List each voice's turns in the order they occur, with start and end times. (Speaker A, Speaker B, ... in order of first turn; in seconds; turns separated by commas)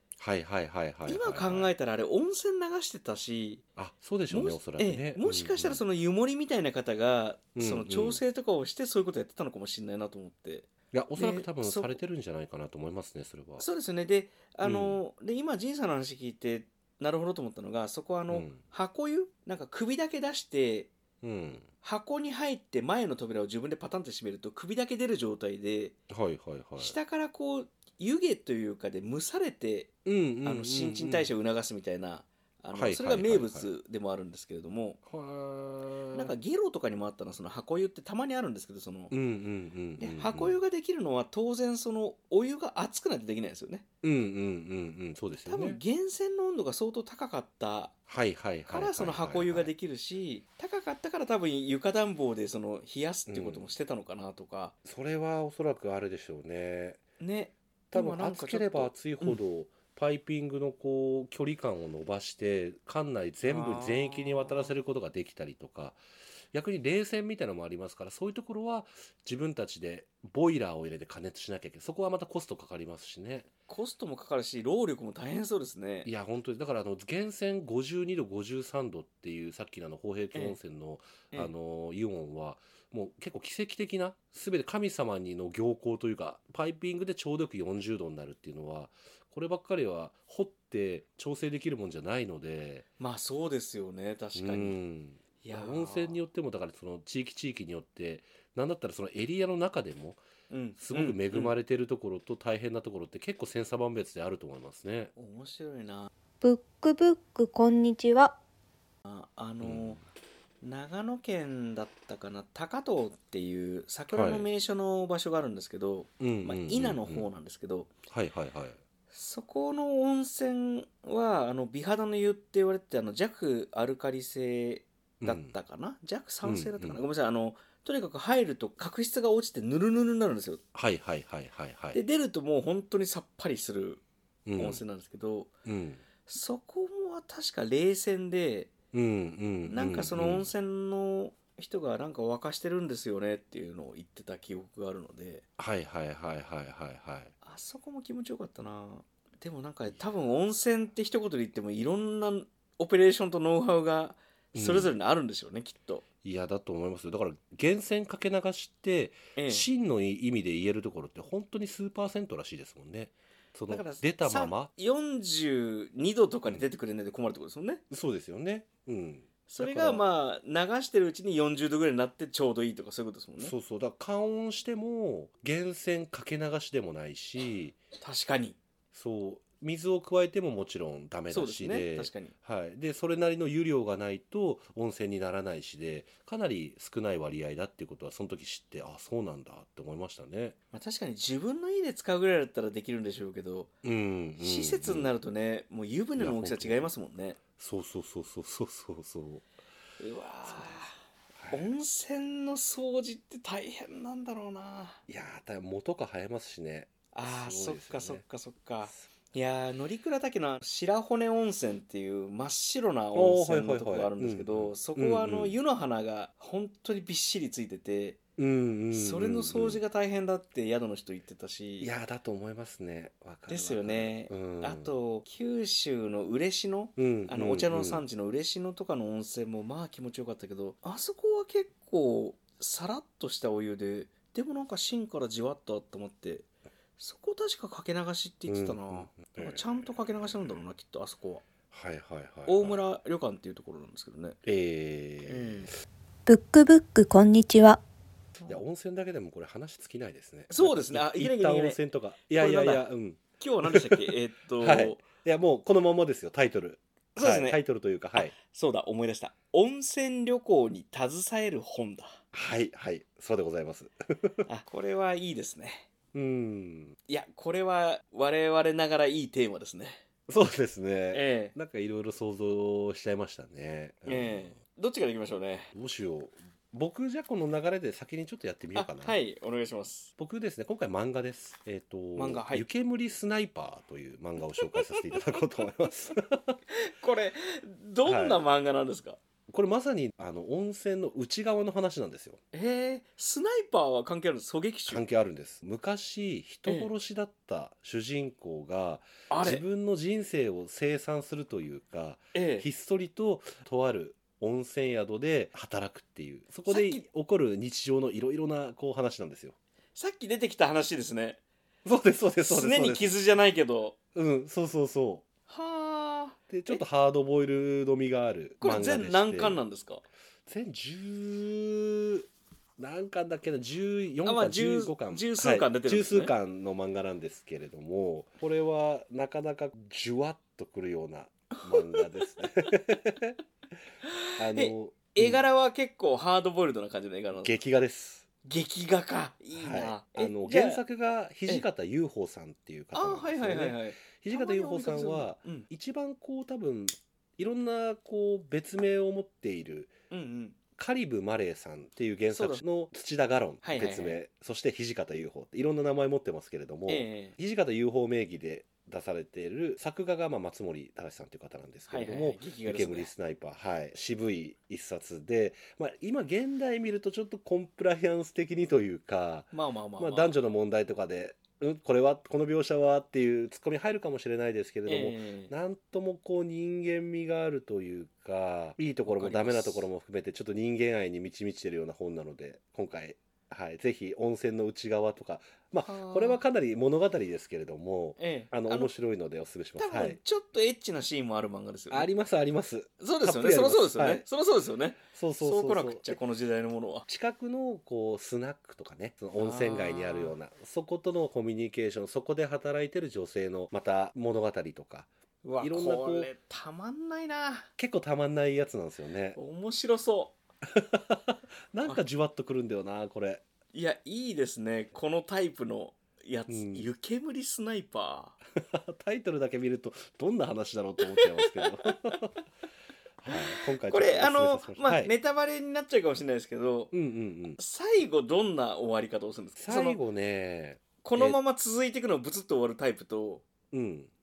Speaker A: 0.2-1.7, Speaker B: 1.1-3.6, Speaker A: 3.8-5.8, Speaker B: 4.3-12.0, Speaker A: 7.5-8.2, Speaker A: 10.9-13.7, Speaker B: 13.6-20.9, Speaker A: 14.6-15.0, Speaker A: 18.3-18.6, Speaker A: 21.2-21.7, Speaker B: 21.8-25.9, Speaker A: 26.1-26.9, Speaker B: 26.8-35.0, Speaker A: 30.0-31.3, Speaker A: 32.7-33.7, Speaker A: 35.0-36.3, Speaker B: 36.1-39.1, Speaker A: 39.1-40.6, Speaker B: 40.0-43.9, Speaker A: 44.0-45.8, Speaker B: 45.5-47.9, Speaker A: 48.1-49.7, Speaker B: 48.7-54.7, Speaker A: 53.3-53.7, Speaker A: 54.8-57.0, Speaker B: 57.2-59.4, Speaker A: 57.9-66.0, Speaker B: 63.4-64.7, Speaker A: 66.5-73.5, Speaker B: 73.7-76.1, Speaker A: 76.0-92.8, Speaker B: 93.0-94.8, Speaker A: 94.3-100.2, Speaker B: 95.4-96.2, Speaker B: 100.5-101.5, Speaker A: 100.8-105.1, Speaker B: 105.2-106.1, Speaker C: 106.4-108.4, Speaker B: 109.0-110.0, Speaker A: 109.6-110.0, Speaker B: 110.6-117.9, Speaker A: 114.1-114.5, Speaker A: 116.2-117.3, Speaker A: 118.1-118.8, Speaker B: 119.1-130.6, Speaker A: 125.2-125.5, Speaker A: 126.4-127.0, Speaker A: 130.7-132.0, Speaker B: 131.9-134.0, Speaker A: 134.4-134.8, Speaker B: 134.6-135.5, Speaker A: 135.6-136.0, Speaker B: 136.2-138.7, Speaker A: 138.9-140.5, Speaker B: 139.6-145.4, Speaker A: 145.6-147.3, Speaker B: 147.4-156.0, Speaker A: 154.5-154.9, Speaker A: 156.2-164.7, Speaker B: 159.3-159.7, Speaker B: 163.7-167.8, Speaker A: 167.9-170.0, Speaker B: 169.5-173.5, Speaker A: 173.4-177.8, Speaker B: 178.0-178.6, Speaker A: 178.9-190.6, Speaker B: 181.3-182.3, Speaker B: 190.7-193.7, Speaker A: 193.8-195.1, Speaker B: 194.4-197.4, Speaker A: 196.2-196.9, Speaker A: 197.6-199.5, Speaker B: 200.0-200.9, Speaker A: 200.5-200.7, Speaker A: 201.3-201.7, Speaker B: 201.5-205.0, Speaker A: 205.1-208.2, Speaker B: 207.1-218.2, Speaker A: 213.1-215.6, Speaker A: 218.4-219.8, Speaker B: 218.9-221.9, Speaker A: 221.8-224.9, Speaker B: 223.5-236.4, Speaker A: 227.0-228.0, Speaker B: 237.0-241.4, Speaker A: 238.5-239.9, Speaker A: 241.7-242.8, Speaker B: 242.5-244.4, Speaker A: 244.4-245.7, Speaker B: 245.2-245.7, Speaker C: 246.2-247.8, Speaker A: 248.4-258.3, Speaker B: 250.5-251.8, Speaker B: 252.3-252.8, Speaker B: 253.4-255.0, Speaker B: 257.1-257.6, Speaker B: 258.1-262.2, Speaker A: 262.3-264.4, Speaker B: 264.4-265.9, Speaker A: 266.1-266.9, Speaker B: 267.1-270.0, Speaker A: 270.3-274.4, Speaker B: 271.1-271.5, Speaker B: 274.1-275.7, Speaker A: 275.7-279.1, Speaker B: 278.7-280.1, Speaker A: 280.2-286.6, Speaker B: 282.1-282.6, Speaker B: 284.6-285.2, Speaker B: 286.7-289.2, Speaker A: 288.0-288.4, Speaker A: 289.5-292.4, Speaker B: 292.5-295.0, Speaker A: 294.9-309.6, Speaker B: 299.3-299.6, Speaker B: 302.3-302.7, Speaker B: 306.7-307.0, Speaker B: 309.9-311.4, Speaker A: 311.8-313.1, Speaker B: 312.4-313.9, Speaker A: 314.1-315.2, Speaker B: 315.5-316.8, Speaker A: 316.5-319.6, Speaker B: 318.6-320.0, Speaker A: 320.4-322.3, Speaker A: 322.8-333.4, Speaker B: 324.2-326.3, Speaker B: 331.5-332.3, Speaker B: 334.0-337.5, Speaker A: 334.4-335.4, Speaker A: 337.4-338.2, Speaker B: 338.4-340.8, Speaker A: 339.5-349.9, Speaker B: 342.9-345.7, Speaker B: 350.1-350.6, Speaker A: 350.8-390.2, Speaker B: 352.3-352.6, Speaker B: 353.6-354.2, Speaker B: 356.9-357.4, Speaker B: 361.9-363.1, Speaker B: 369.5-370.3, Speaker B: 374.9-375.5, Speaker B: 379.1-379.9, Speaker B: 385.8-386.4, Speaker B: 388.2-388.9, Speaker B: 389.8-392.1, Speaker A: 391.9-394.2, Speaker B: 393.0-397.0, Speaker A: 395.0-396.2, Speaker A: 397.1-405.1, Speaker B: 399.4-400.4, Speaker B: 405.4-407.7, Speaker A: 405.6-406.3, Speaker A: 407.8-409.4, Speaker B: 409.4-410.4, Speaker A: 410.7-413.4, Speaker B: 413.7-418.4, Speaker A: 416.5-416.9, Speaker A: 418.5-422.4, Speaker B: 421.1-422.2, Speaker A: 423.2-425.1, Speaker B: 423.3-426.9, Speaker A: 426.9-427.6, Speaker B: 427.6-430.0, Speaker A: 429.6-431.4, Speaker B: 431.0-433.4, Speaker A: 433.7-434.1